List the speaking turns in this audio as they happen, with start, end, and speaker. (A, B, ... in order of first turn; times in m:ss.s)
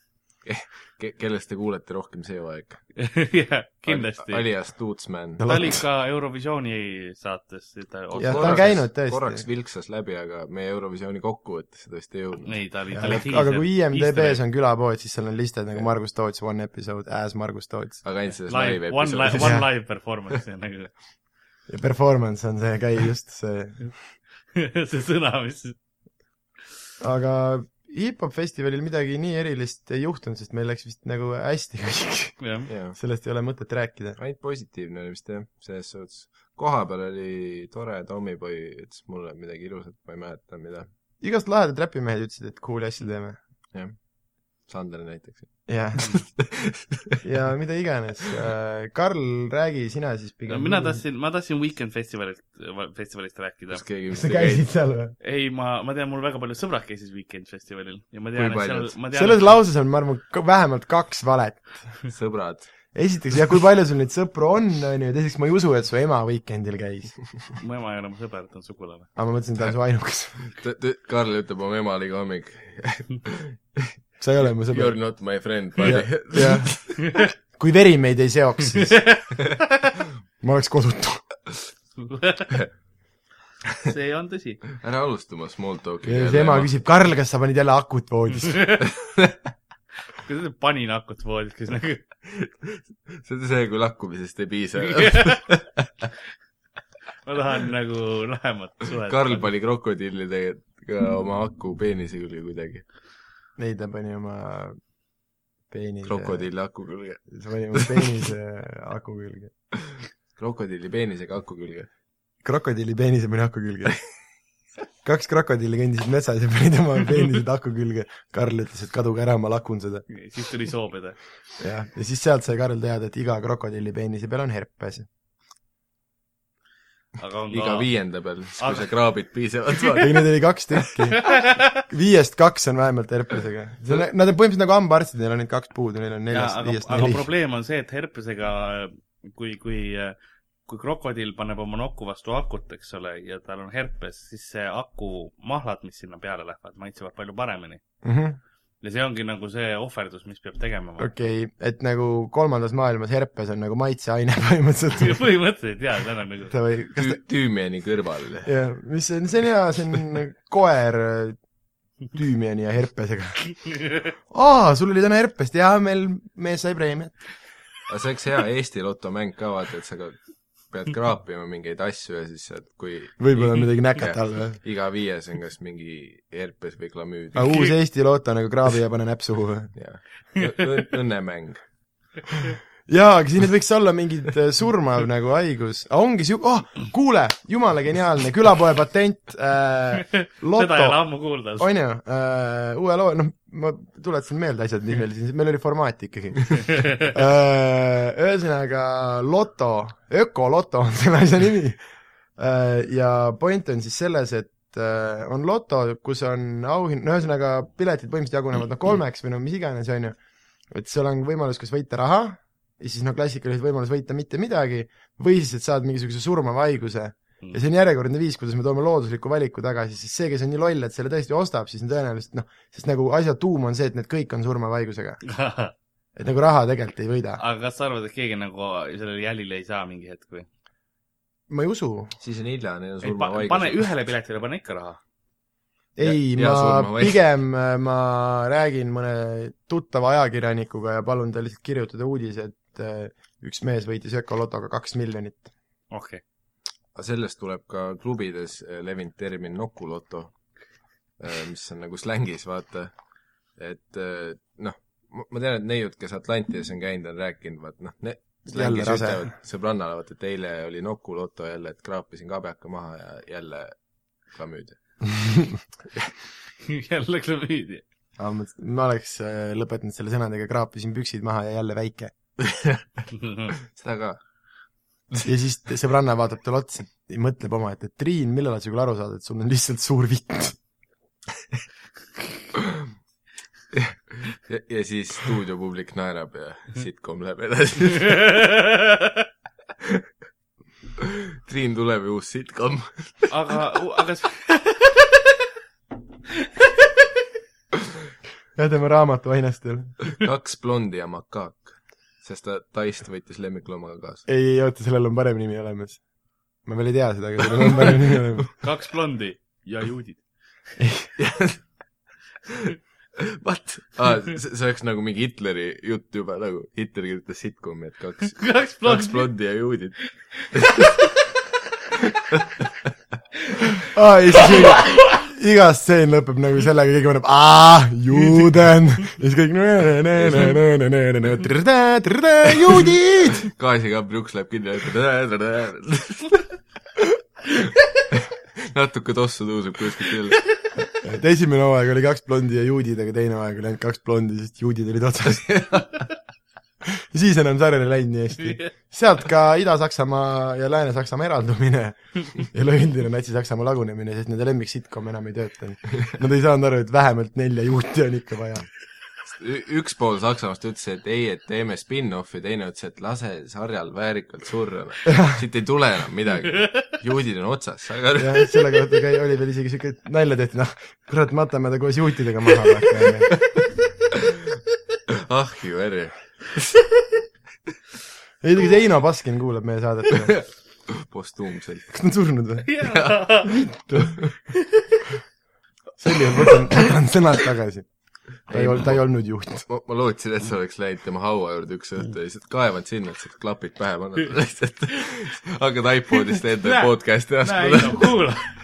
0:00.4-0:02.9 A
0:03.0-0:04.4 B
0:03.8-0:05.4 A
0:05.4-0:05.8 C
0:05.4-0:08.8 B
0:08.1-0:12.6 A
0:08.2-0:09.4 C
0:12.4-0:14.4 B
0:12.9-0:18.0 C
0:18.0-0:19.6 A
0:18.4-0:20.9 B
0:19.3-0:19.7 C
0:21.7-0:23.9 C
0:24.5-0:25.8 B
0:27.0-0:32.4 C
0:32.4-0:32.7 B
0:32.7-0:33.0 A
0:32.9-0:34.2 C
0:34.2-0:40.9 A
0:41.2-0:43.4 C
0:43.7-0:44.0 A
0:44.6-0:47.2 A
0:45.7-0:46.2 C
0:47.2-0:51.0 C
0:50.5-0:53.8 B
0:53.7-0:54.6 A
0:54.1-0:55.1 C
0:55.2-0:59.5 B
0:58.3-0:58.9 A
0:59.1-1:02.0 C
1:02.1-1:02.7 A
1:02.9-1:07.2 C
1:07.6-1:09.1 B
1:09.2-1:10.5 C
1:10.6-1:13.9 A
1:14.2-1:15.0 C
1:14.6-1:17.2 A
1:15.8-1:16.8 C
1:17.6-1:19.0 C
1:18.8-1:19.6 B
1:20.4-1:21.2 C
1:22.0-1:22.5 B
1:23.8-1:24.6 B
1:24.7-1:26.7 A
1:26.0-1:28.6 C
1:28.4-1:28.8 B
1:30.2-1:32.0 B
1:32.2-1:35.9 A
1:34.8-1:35.4 B
1:37.2-1:39.5 B
1:39.1-1:42.8 A
1:43.6-1:44.8 C
1:45.7-1:46.5 C
1:46.0-1:48.2 A
1:47.3-1:49.5 C
1:50.4-1:51.9 A
1:52.4-1:54.0 C
1:55.0-2:00.1 C
2:00.1-2:01.2 B
2:01.6-2:05.1 C
2:07.2-2:07.9 B
2:07.5-2:10.3 A
2:08.6-2:08.9 B
2:10.0-2:17.2 C
2:11.2-2:11.8 B
2:16.3-2:27.8 B
2:28.0-2:28.4 C
2:28.8-2:31.1 B
2:31.0-2:35.2 C
2:35.0-2:36.5 B
2:36.5-2:37.2 C
2:37.0-2:38.5 A
2:38.4-2:41.4 C
2:42.1-2:43.4 C
2:44.3-2:47.2 C
2:47.9-2:50.2 A
2:50.7-2:57.7 A
2:53.2-2:54.6 C
2:57.3-2:59.7 C
2:59.7-3:01.6 A
3:02.9-3:11.0 C
3:10.1-3:11.7 B
3:11.6-3:21.8 C
3:22.4-3:30.2 C
3:30.7-3:45.2 C
3:45.2-3:45.7 B
3:46.2-3:47.4 C
3:47.4-3:50.5 B
3:51.5-3:52.1 C
3:52.2-3:53.9 A
3:53.0-3:55.0 B
3:56.0-4:05.5 C
3:56.0-3:57.2 A
4:05.9-4:06.2 B
4:06.9-4:10.3 A
4:11.2-4:12.9 A
4:13.6-4:23.7 A
4:18.5-4:19.3 C
4:24.3-4:24.8 A
4:25.2-4:25.6 C
4:26.6-4:27.8 B
4:28.2-4:32.1 C
4:32.4-4:33.1 A
4:33.1-4:33.5 B
4:33.7-4:34.2 A
4:35.2-4:40.6 C
4:43.7-4:48.5 A
4:48.1-4:49.1 B
4:51.0-4:53.3 A
4:53.3-4:55.1 B
4:58.6-5:00.0 C
5:00.1-5:04.2 A
5:04.3-5:06.0 C
5:06.6-5:08.5 C
5:08.6-5:10.2 B
5:10.8-5:11.1 C
5:11.2-5:11.6 A
5:13.3-5:20.0 A
5:18.4-5:19.3 B
5:20.5-5:20.9 A
5:20.6-5:21.1 B
5:22.3-5:22.6 A
5:23.9-5:33.5 C
5:30.1-5:30.6 A
5:33.3-5:36.5 A
5:38.1-5:40.4 A
5:41.0-5:45.7 C
5:45.4-5:45.8 A
5:46.8-5:58.7 C
5:59.3-6:08.6 A
6:05.1-6:05.4 C
6:08.2-6:13.3 C
6:15.1-6:16.7 A
6:18.4-6:20.4 C
6:20.2-6:21.9 A
6:21.9-6:22.7 C
6:22.6-6:23.5 B
6:22.9-6:23.2 A
6:23.4-6:24.3 C
6:24.0-6:24.3 A
6:26.0-6:27.9 C
6:28.5-6:29.6 C
6:28.5-6:29.0 A
6:29.7-6:38.2 A
6:36.6-6:38.5 B